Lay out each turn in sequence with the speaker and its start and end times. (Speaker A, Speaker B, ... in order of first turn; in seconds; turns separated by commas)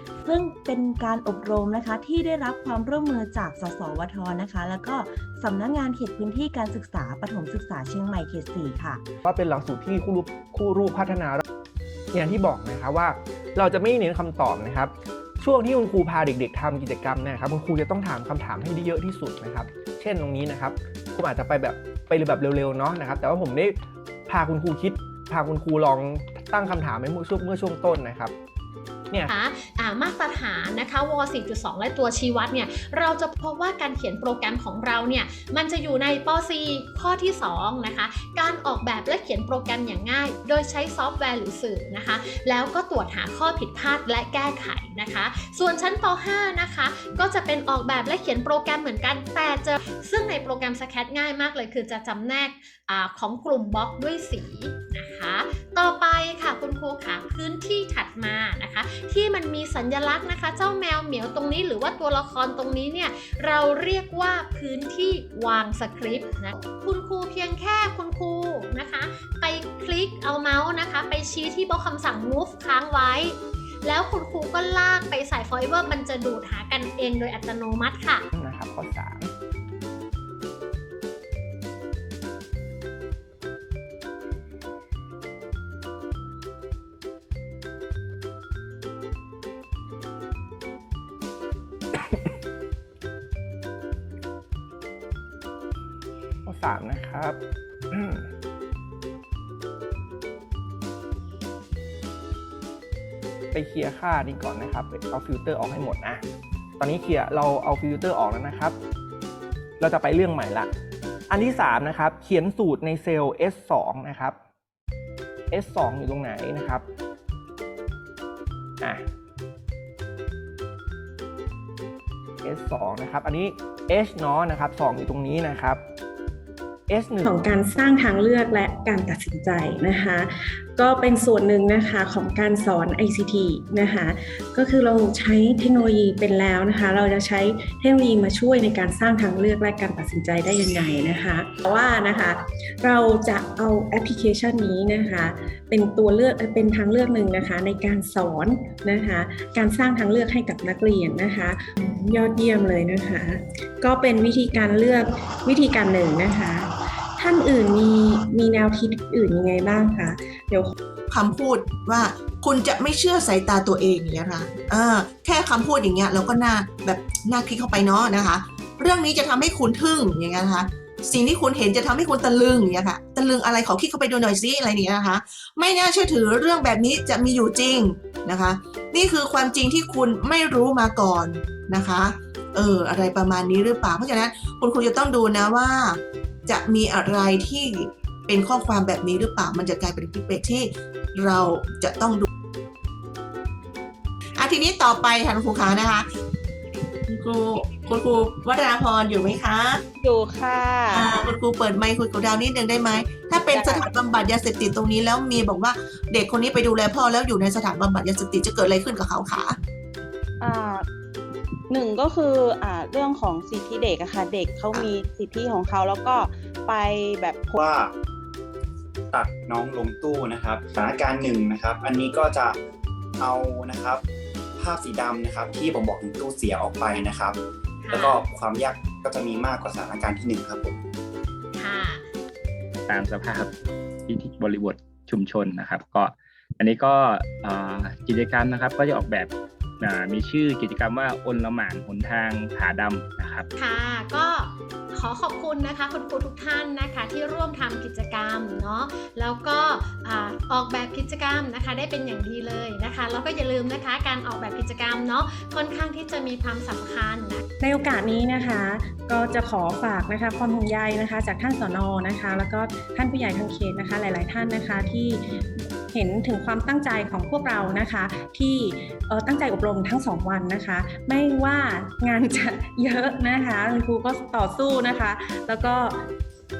Speaker A: 0.2-9.0, Speaker B: 9.2-11.4, Speaker B: 12.1-28.3, Speaker C: 29.2-78.2, Speaker B: 78.3-79.3, Speaker B: 96.4-97.4, Speaker B: 97.9-98.3, Speaker B: 103.5-106.2, Speaker B: 106.8-108.8, Speaker B: 109.8-110.7, Speaker B: 111.3-114.4, Speaker B: 115.5-116.8, Speaker B: 118.8-119.1, Speaker B: 122.4-125.8, Speaker B: 126.9-127.3, Speaker D: 127.2-160.7, Speaker E: 161.1-192.2, Speaker E: 194.4-196.1, Speaker E: 197.1-199.8, Speaker F: 200.0-201.3, Speaker E: 200.9-209.6, Speaker F: 203.0-203.9, Speaker F: 210.4-210.8, Speaker F: 211.7-217.6, Speaker G: 217.6-217.9, Speaker G: 219.1-222.6, Speaker G: 223.2-224.0, Speaker G: 224.6-227.4, Speaker C: 227.8-228.2, Speaker G: 227.9-230.8, Speaker C: 231.5-232.0, Speaker H: 232.9-233.5, Speaker H: 234.1-243.5, Speaker C: 243.6-257.4, Speaker D: 257.6-276.1